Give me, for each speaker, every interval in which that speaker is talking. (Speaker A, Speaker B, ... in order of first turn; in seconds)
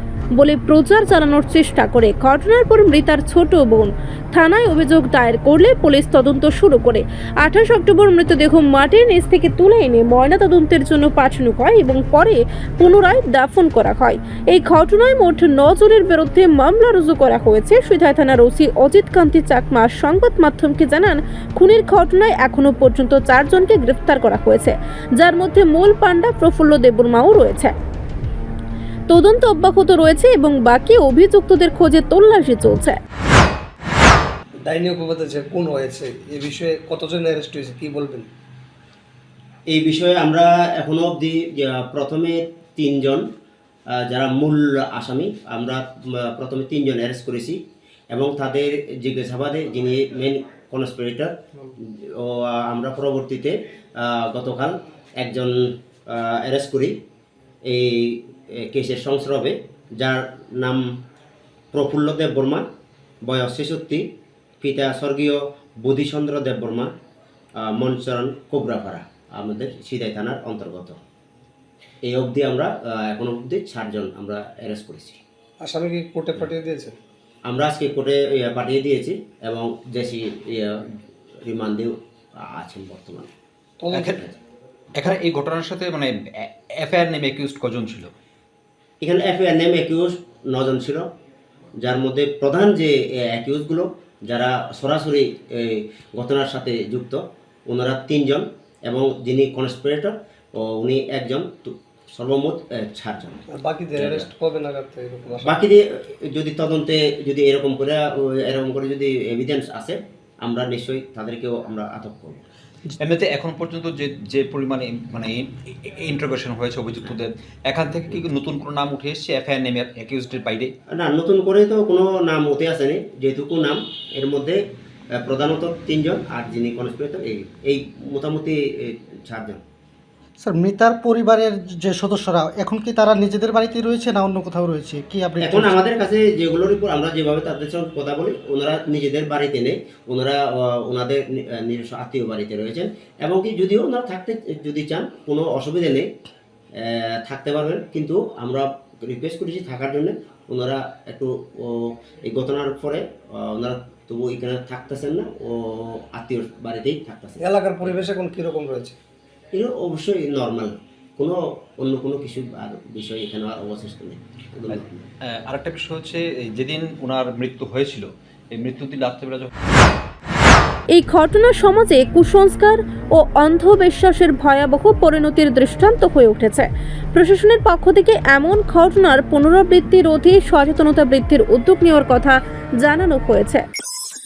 Speaker A: 0.3-27.7, 29.1-33.0, 170.9-183.6
Speaker B: 34.6-38.3, 75.6-77.0, 83.8-84.2, 103.5-105.6, 157.4-159.0
Speaker C: 39.7-43.2, 43.9-47.6, 48.1-56.9, 57.6-60.8, 61.7-62.6, 63.2-64.1, 64.6-66.9, 67.6-71.0, 72.0-75.2, 77.5-83.3, 89.0-91.1, 91.8-103.4, 103.9-104.3, 105.4-112.4, 120.9-124.6, 125.1-129.6, 135.4-146.1, 146.8-157.9, 159.5-165.1
Speaker D: 83.9-84.2, 85.0-88.1, 113.0-120.7, 164.7-169.5
Speaker E: 130.4-135.8